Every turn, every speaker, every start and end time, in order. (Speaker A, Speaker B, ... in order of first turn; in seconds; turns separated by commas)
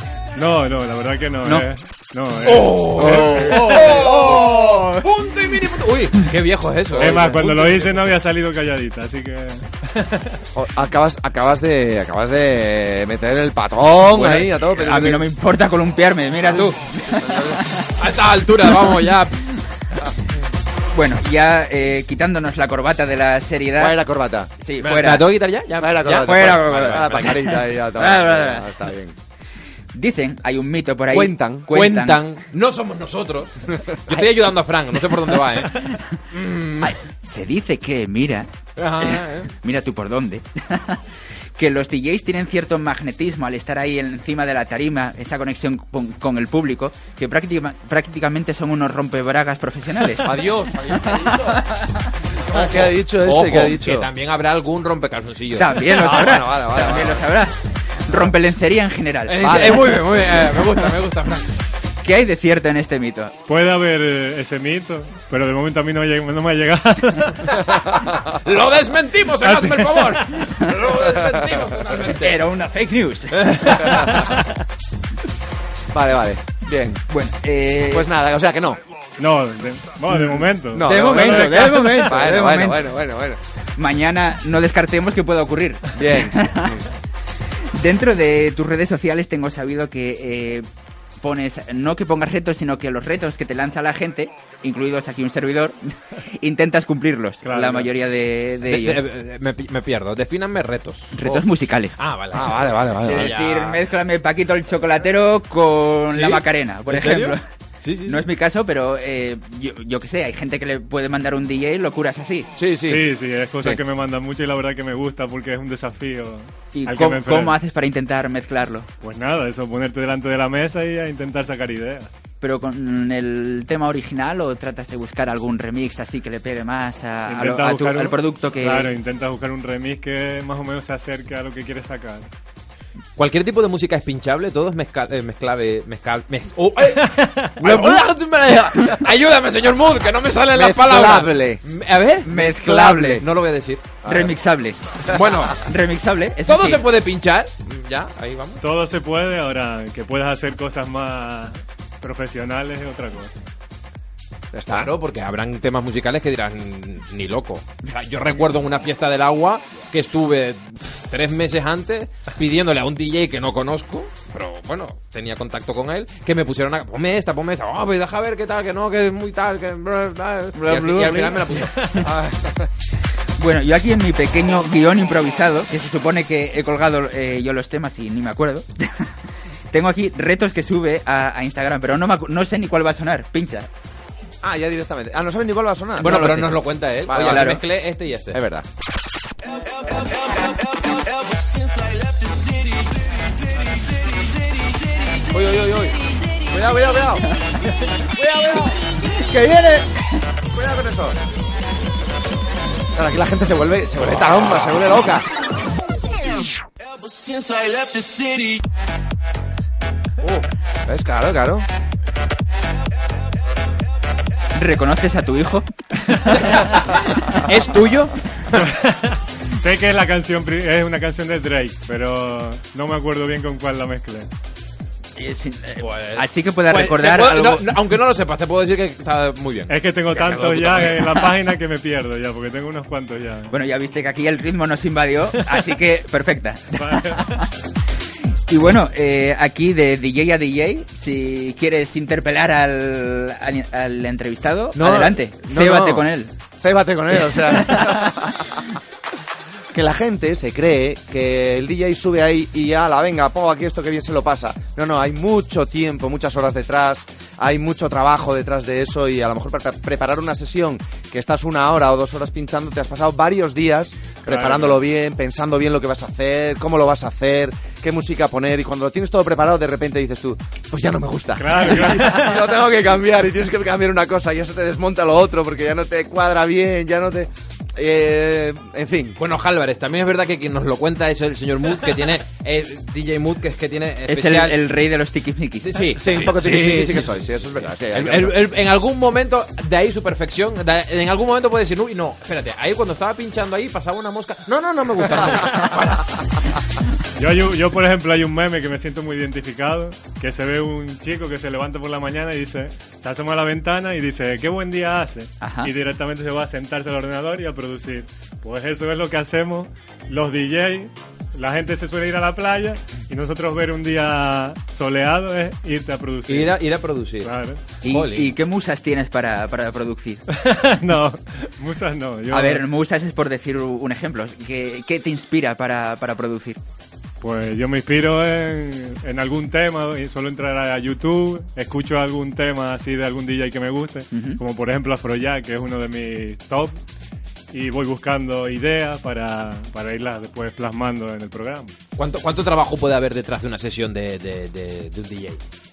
Speaker A: 0.3-3.9, Speaker B: 2.4-8.2, Speaker C: 3.0-5.0, Speaker D: 7.0-7.2, Speaker A: 7.0-10.4, Speaker D: 10.5-15.3, Speaker C: 14.1-17.9, Speaker D: 16.9-17.6, Speaker B: 18.0-19.4, Speaker C: 20.9-24.0, Speaker D: 23.8-24.5, Speaker C: 24.6-25.3, Speaker B: 24.8-27.4, Speaker D: 25.8-29.1, Speaker C: 26.1-28.7, Speaker C: 29.9-32.2, Speaker D: 31.1-31.7, Speaker B: 31.7-37.0, Speaker C: 35.8-36.2, Speaker C: 36.8-38.5, Speaker B: 38.8-39.5, Speaker C: 39.0-41.0, Speaker C: 41.6-50.4, Speaker D: 50.2-51.6, Speaker D: 52.5-54.1, Speaker B: 52.5-56.3, Speaker C: 55.5-59.9, Speaker D: 55.7-57.2, Speaker B: 59.3-61.6, Speaker D: 59.4-59.8, Speaker C: 62.0-63.3, Speaker A: 63.5-67.8, Speaker B: 68.3-72.4, Speaker A: 69.4-70.2, Speaker C: 70.4-70.7, Speaker C: 72.1-74.1, Speaker B: 73.3-74.3, Speaker D: 75.9-77.0, Speaker C: 77.1-78.1, Speaker D: 77.9-78.8, Speaker A: 79.2-82.1, Speaker C: 80.2-82.9, Speaker D: 80.7-83.4, Speaker C: 83.8-86.7, Speaker D: 85.9-86.9, Speaker C: 87.7-90.7, Speaker C: 91.2-99.0, Speaker A: 97.4-97.9, Speaker B: 98.7-101.4, Speaker C: 101.1-102.0, Speaker B: 102.0-103.8, Speaker D: 102.3-103.3, Speaker C: 103.0-107.4, Speaker B: 106.1-108.2, Speaker C: 108.1-112.5, Speaker D: 112.5-113.1, Speaker A: 112.8-117.5, Speaker C: 116.7-118.9, Speaker A: 119.0-122.1, Speaker C: 122.4-128.9, Speaker A: 127.3-132.3, Speaker B: 133.2-144.0, Speaker A: 136.9-137.6, Speaker D: 137.6-138.0, Speaker D: 140.5-141.6, Speaker C: 142.2-143.2, Speaker D: 142.3-143.2, Speaker D: 144.0-144.3, Speaker C: 144.0-144.8, Speaker B: 145.1-145.6, Speaker C: 145.5-146.8, Speaker B: 146.4-148.6, Speaker A: 148.6-153.4, Speaker D: 154.5-154.9, Speaker B: 154.7-172.0, Speaker C: 170.5-171.5, Speaker D: 172.0-172.7, Speaker C: 173.4-179.1, Speaker C: 179.7-183.7, Speaker D: 184.4-187.7, Speaker B: 186.0-188.4, Speaker C: 187.1-187.6, Speaker D: 188.3-188.7, Speaker D: 195.3-197.3, Speaker D: 197.9-199.8, Speaker C: 199.2-199.6, Speaker D: 200.5-201.2, Speaker D: 202.9-205.2, Speaker D: 210.2-211.6, Speaker C: 214.5-217.4, Speaker B: 216.3-216.6, Speaker B: 217.4-218.7, Speaker A: 218.6-224.3, Speaker C: 225.2-227.8, Speaker B: 225.8-231.3, Speaker A: 229.7-233.5, Speaker C: 233.5-237.5, Speaker A: 236.7-237.4, Speaker C: 238.5-246.3, Speaker D: 244.7-248.7, Speaker C: 247.1-248.1, Speaker D: 249.7-279.2, Speaker A: 264.3-264.8, Speaker A: 271.4-272.4, Speaker B: 279.2-284.6, Speaker C: 284.1-285.9, Speaker B: 285.7-287.1, Speaker D: 286.0-288.4, Speaker B: 287.9-296.2, Speaker A: 297.2-316.6, Speaker C: 305.4-305.7, Speaker B: 316.3-318.3, Speaker A: 317.2-317.6, Speaker C: 317.8-320.2, Speaker A: 320.3-322.6, Speaker C: 322.3-326.6, Speaker A: 327.2-336.8, Speaker C: 334.1-334.4, Speaker A: 337.5-341.7, Speaker B: 342.0-345.4